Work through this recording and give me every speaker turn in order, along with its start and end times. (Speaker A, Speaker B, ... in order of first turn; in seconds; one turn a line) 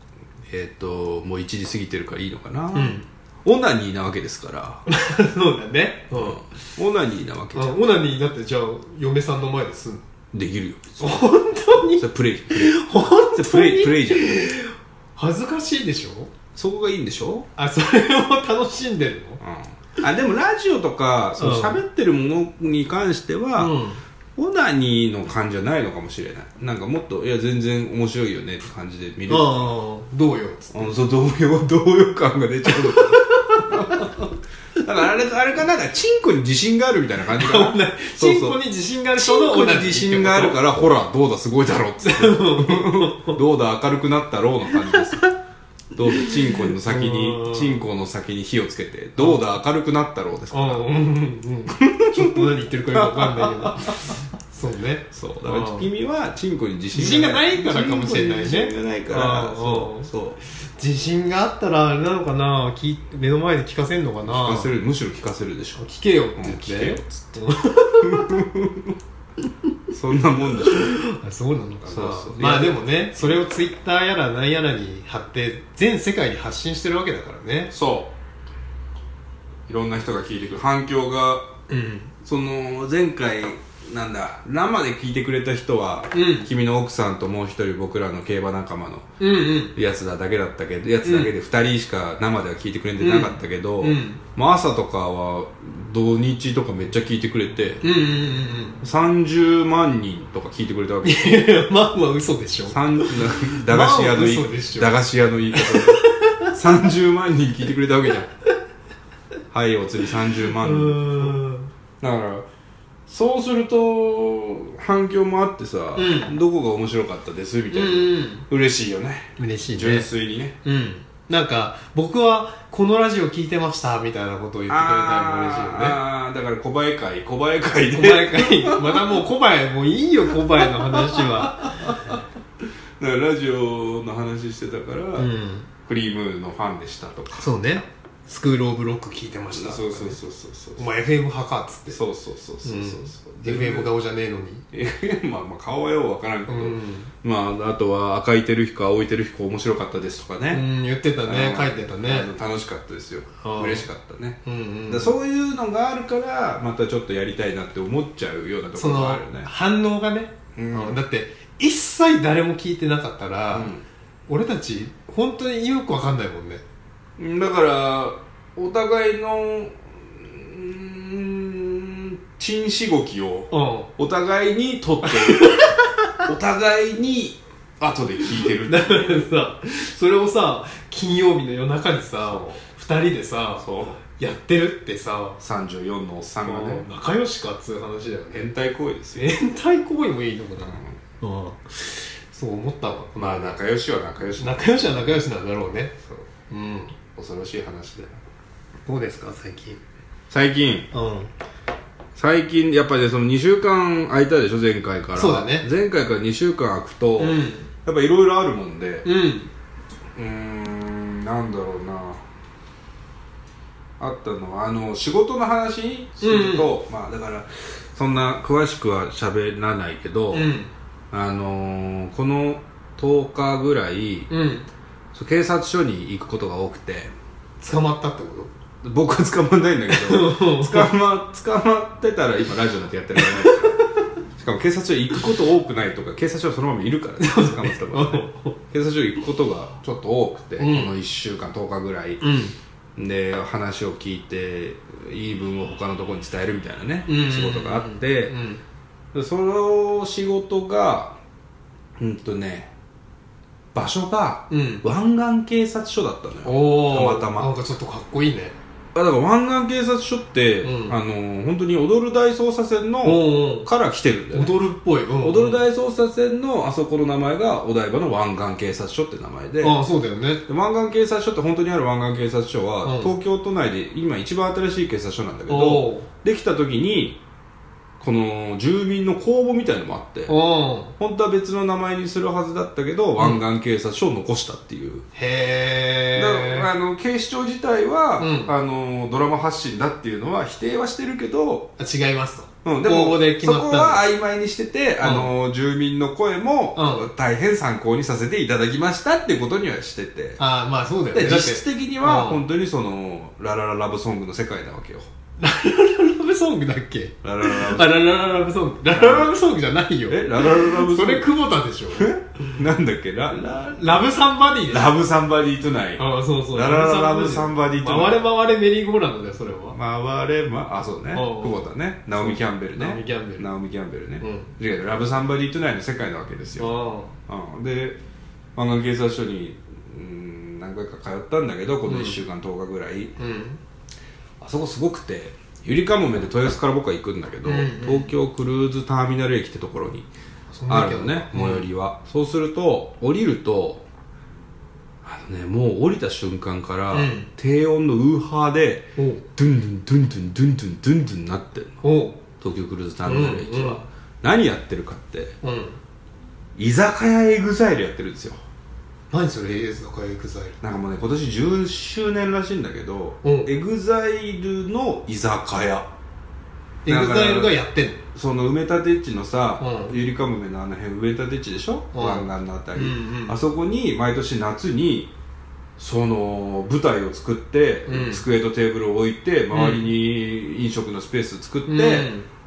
Speaker A: 0.5-4.8
Speaker B: 2.7-3.0
Speaker B: 4.9-6.5
Speaker A: 6.1-7.8
Speaker B: 7.5-10.0
Speaker A: 10.3-11.2
Speaker B: 11.0-16.3
Speaker A: 12.0-14.5
Speaker A: 16.5-17.5
Speaker B: 17.6-19.4
Speaker A: 19.4-23.7
Speaker B: 21.4-21.8
Speaker B: 23.6-24.0
Speaker A: 24.4-29.7
Speaker B: 29.3-31.0
Speaker A: 30.7-38.6
Speaker B: 32.6-34.1
Speaker B: 37.3-40.6
Speaker A: 39.1-45.2
Speaker B: 42.0-43.4
Speaker B: 44.7-45.3
Speaker A: 45.9-50.8
Speaker B: 46.1-47.8
Speaker B: 49.2-49.4
Speaker B: 50.5-55.9
Speaker A: 51.7-54.1
Speaker A: 55.1-60.4
Speaker B: 56.9-64.7
Speaker A: 64.2-65.8
Speaker B: 65.8-68.4
Speaker A: 66.3-67.4
Speaker A: 68.0-69.0
Speaker A: 69.9-71.0
Speaker B: 70.6-77.7
Speaker A: 71.8-73.4
Speaker A: 77.7-78.1
Speaker A: 79.7-81.5
Speaker B: 81.7-82.1
Speaker A: 82.2-89.1
Speaker B: 86.1-86.5
Speaker B: 89.2-89.7
Speaker A: 89.7-97.8
Speaker B: 91.0-91.3
Speaker B: 93.0-94.2
Speaker B: 97.8-98.8
Speaker A: 98.8-101.5
Speaker B: 101.0-105.0
Speaker A: 102.7-108.3
Speaker B: 105.5-106.6
Speaker A: 109.5-111.4
Speaker B: 110.4-111.7
Speaker A: 112.0-112.5
Speaker A: 113.1-120.6
Speaker B: 116.0-116.3
Speaker B: 117.7-118.5
Speaker B: 119.4-120.1
Speaker B: 120.6-126.0
Speaker A: 124.7-129.2
Speaker B: 127.9-131.9
Speaker A: 130.4-132.2
Speaker A: 133.0-135.3
Speaker B: 135.2-135.7
Speaker A: 135.8-137.7
Speaker B: 137.4-140.2
Speaker A: 139.5-140.9
Speaker B: 140.8-142.0
Speaker A: 141.9-143.9
Speaker B: 142.6-144.6
Speaker A: 144.7-150.6
Speaker B: 146.5-147.1
Speaker B: 150.5-152.3
Speaker A: 151.2-159.5
Speaker B: 153.4-153.8
Speaker B: 154.4-155.1
Speaker B: 158.8-163.7
Speaker A: 160.5-161.0
Speaker A: 163.5-163.8
Speaker B: 164.3-166.6
Speaker A: 167.2-175.7
Speaker B: 173.5-173.9
Speaker B: 175.0-176.3
Speaker A: 176.2-179.3
Speaker B: 178.6-185.4
Speaker A: 182.2-182.6
Speaker A: 183.6-184.0
Speaker A: 185.4-186.9
Speaker B: 186.4-188.5
Speaker A: 188.3-189.3
Speaker B: 189.1-193.6
Speaker A: 193.2-195.2
Speaker B: 194.4-196.9
Speaker A: 197.1-198.2
Speaker B: 198.8-199.8
Speaker A: 200.3-200.9
Speaker B: 200.9-201.3
Speaker A: 202.2-209.1
Speaker B: 205.1-205.7
Speaker B: 207.2-207.7
Speaker B: 209.0-209.5
Speaker A: 210.2-212.2
Speaker A: 214.0-220.5
Speaker B: 216.2-216.8
Speaker B: 220.3-220.7
Speaker A: 221.1-224.3
Speaker B: 224.3-224.7
Speaker A: 225.1-227.1
Speaker B: 227.6-228.5
Speaker A: 228.8-233.8
Speaker B: 229.9-230.9
Speaker B: 233.2-233.9
Speaker A: 234.3-242.2
Speaker B: 237.2-238.6
Speaker B: 240.6-240.9
Speaker B: 242.2-242.5
Speaker A: 242.9-248.3
Speaker B: 247.1-248.6
Speaker A: 249.1-251.2
Speaker A: 252.0-252.7
Speaker A: 253.7-257.5
Speaker B: 254.5-254.8
Speaker B: 256.4-258.6
Speaker A: 258.9-264.6
Speaker B: 260.6-261.0
Speaker B: 263.0-263.7
Speaker B: 264.3-265.6
Speaker A: 265.2-269.8
Speaker B: 269.6-270.4
Speaker A: 270.5-277.2
Speaker B: 272.8-273.1
Speaker B: 275.5-276.1
Speaker A: 278.0-280.3
Speaker B: 280.3-280.9
Speaker A: 281.0-285.0
Speaker B: 285.1-286.7
Speaker A: 286.1-291.7
Speaker B: 288.2-288.5
Speaker B: 291.8-294.0
Speaker A: 292.6-300.4
Speaker B: 295.0-295.3
Speaker B: 296.8-297.1
Speaker B: 300.4-302.4
Speaker A: 301.1-305.1
Speaker B: 305.4-312.6
Speaker A: 307.2-307.9
Speaker A: 308.9-309.3
Speaker A: 310.1-311.3
Speaker A: 311.9-314.0
Speaker B: 313.4-314.9
Speaker A: 314.7-318.2
Speaker B: 316.0-319.8
Speaker A: 319.7-326.7
Speaker B: 321.1-323.5
Speaker B: 324.2-324.5
Speaker B: 326.6-327.1
Speaker A: 327.3-328.0
Speaker A: 328.6-333.1
Speaker B: 331.9-332.2
Speaker B: 333.2-333.6
Speaker A: 334.4-340.1
Speaker B: 337.4-338.1
Speaker B: 340.5-341.7
Speaker A: 340.7-343.8
Speaker A: 345.0-351.8
Speaker B: 346.9-347.3
Speaker B: 349.0-349.2
Speaker B: 351.8-352.2
Speaker A: 352.4-355.3
Speaker B: 353.0-353.8
Speaker B: 355.4-355.8
Speaker A: 356.6-358.4
Speaker B: 359.1-360.6
Speaker A: 360.6-365.9
Speaker B: 363.2-363.5
Speaker B: 366.8-368.0
Speaker A: 366.9-367.6
Speaker A: 368.1-375.1
Speaker B: 369.6-369.9
Speaker B: 371.9-373.4
Speaker A: 375.8-382.1
Speaker B: 377.9-378.2
Speaker B: 379.5-379.9
Speaker B: 381.7-382.3